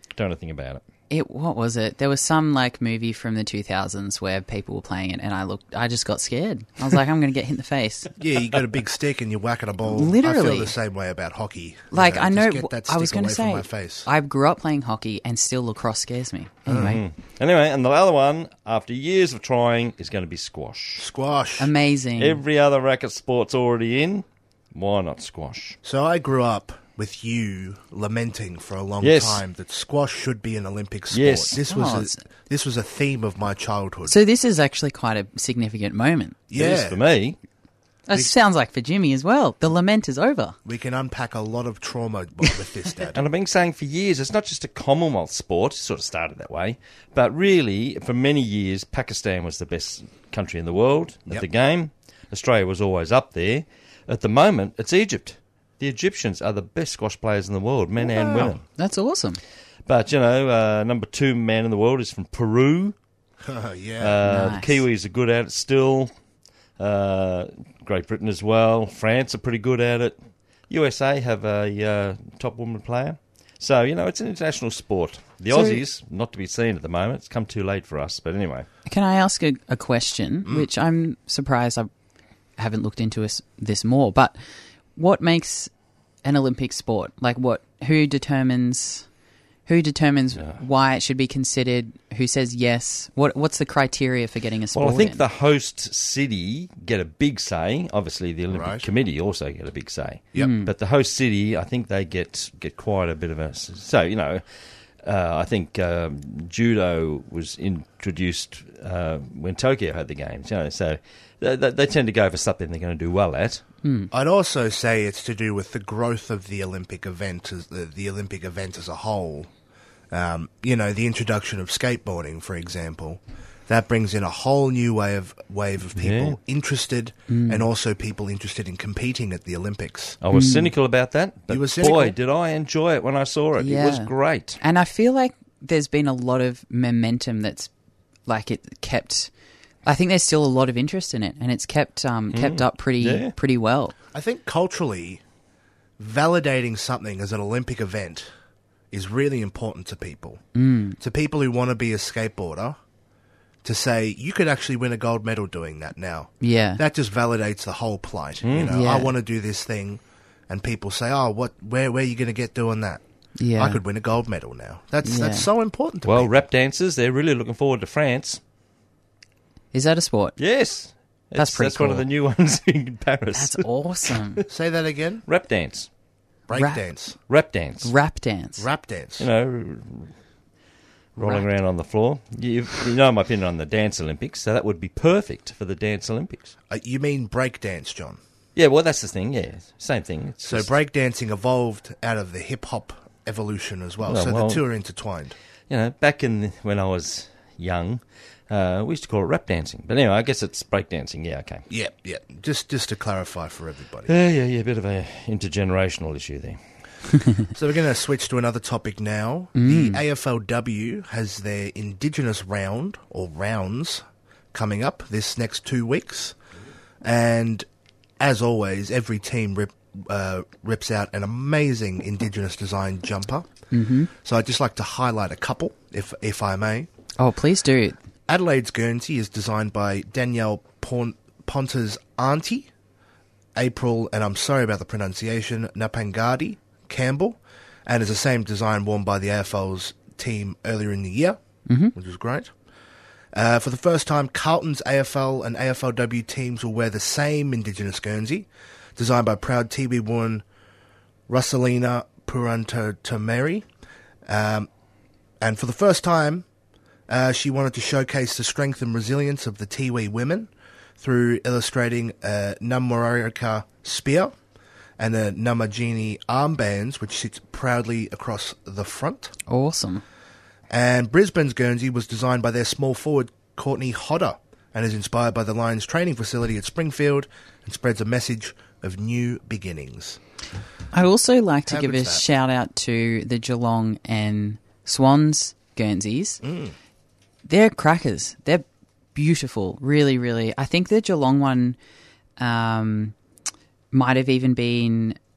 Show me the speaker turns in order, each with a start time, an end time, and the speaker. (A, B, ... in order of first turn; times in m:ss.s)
0:00.2-0:00.8 A
0:01.1-0:08.1 B
0:08.2-0:14.1 C
0:09.8-0:10.7 B
0:11.9-0:17.0 B
0:16.7-0:17.0 C
0:16.7-0:21.0 A
0:21.0-0:21.7 C
0:21.6-0:22.4 B
0:22.2-0:25.8 A
0:25.8-0:34.2 C
0:29.0-0:29.4 A
0:31.1-0:31.6 A
0:31.7-0:32.2 B
0:34.1-0:36.4 B
0:36.5-0:37.0 C
0:36.5-0:37.4 A
0:38.1-0:40.6 B
0:40.6-0:43.2 C
0:43.1-0:58.6 A
0:58.0-0:58.5 C
0:58.8-0:59.4 B
0:59.8-1:02.9 A
1:03.4-1:04.2 C
1:04.0-1:06.1 A
1:04.2-1:04.8 B
1:06.8-1:10.2 A
1:10.7-1:18.7 A
1:15.5-1:15.8 B
1:18.9-1:21.9 B
1:22.6-1:24.4 B
1:24.9-1:25.7 B
1:26.2-1:29.0 B
1:29.6-1:35.2 B
1:34.7-1:44.4 A
1:38.5-1:38.9 C
1:40.4-1:40.7 B
1:45.0-1:53.6 A
1:53.8-1:54.1 B
1:54.1-1:59.5 C
2:00.1-2:10.2 C
2:06.0-2:06.4 A
2:07.3-2:07.7 B
2:10.2-2:14.6 A
2:10.3-2:10.7 B
2:11.5-2:12.2 C
2:13.6-2:17.7 B
2:18.3-2:19.3 B
2:19.8-2:23.9 B
2:22.3-2:23.3 A
2:24.1-2:25.2 C
2:26.0-2:28.3 C
2:28.9-2:30.4 C
2:30.5-2:31.0 B
2:31.0-2:32.8 C
2:33.6-2:43.0 C
2:36.4-2:36.8 B
2:38.4-2:38.8 A
2:38.7-2:39.1 B
2:43.4-2:43.8 B
2:43.6-2:46.3 C
2:45.0-2:45.5 B
2:46.0-2:48.4 A
2:49.7-2:50.4 B
2:50.4-2:54.4 A
2:51.4-2:52.0 B
2:53.3-2:54.4 B
2:54.5-2:55.2 C
2:55.2-2:55.9 A
2:56.5-2:57.2 C
2:56.5-2:56.8 B
2:57.3-2:57.9 A
2:57.8-2:58.6 B
2:58.6-2:59.3 C
2:59.2-3:00.1 A
3:01.2-3:06.5 A
3:06.7-3:08.2 C
3:08.6-3:10.7 A
3:10.4-3:15.4 C
3:14.0-3:14.6 A
3:15.7-3:21.6 A
3:21.7-3:24.1 C
3:24.1-3:26.6 A
3:27.5-3:36.4 C
3:29.5-3:30.0 B
3:37.0-3:37.6 C
3:38.2-3:43.5 C
3:43.7-3:44.1 B
3:44.2-3:46.9 C
3:47.2-3:48.0 B
3:48.3-3:52.7 C
3:53.5-4:01.4 C
4:01.7-4:01.9 B
4:01.9-4:02.5 C
4:03.3-4:10.4 C
4:11.3-4:13.7 C
4:14.2-4:14.7 C
4:15.4-4:16.4 C
4:17.1-4:24.3 C
4:25.0-4:29.3 C
4:29.5-4:30.0 B
4:30.7-4:40.2 C
4:40.9-4:46.4 B
4:41.7-4:42.2 C
4:46.4-4:46.7 C
4:47.4-4:51.8 B
4:52.4-4:53.1 B
4:53.9-4:55.2 B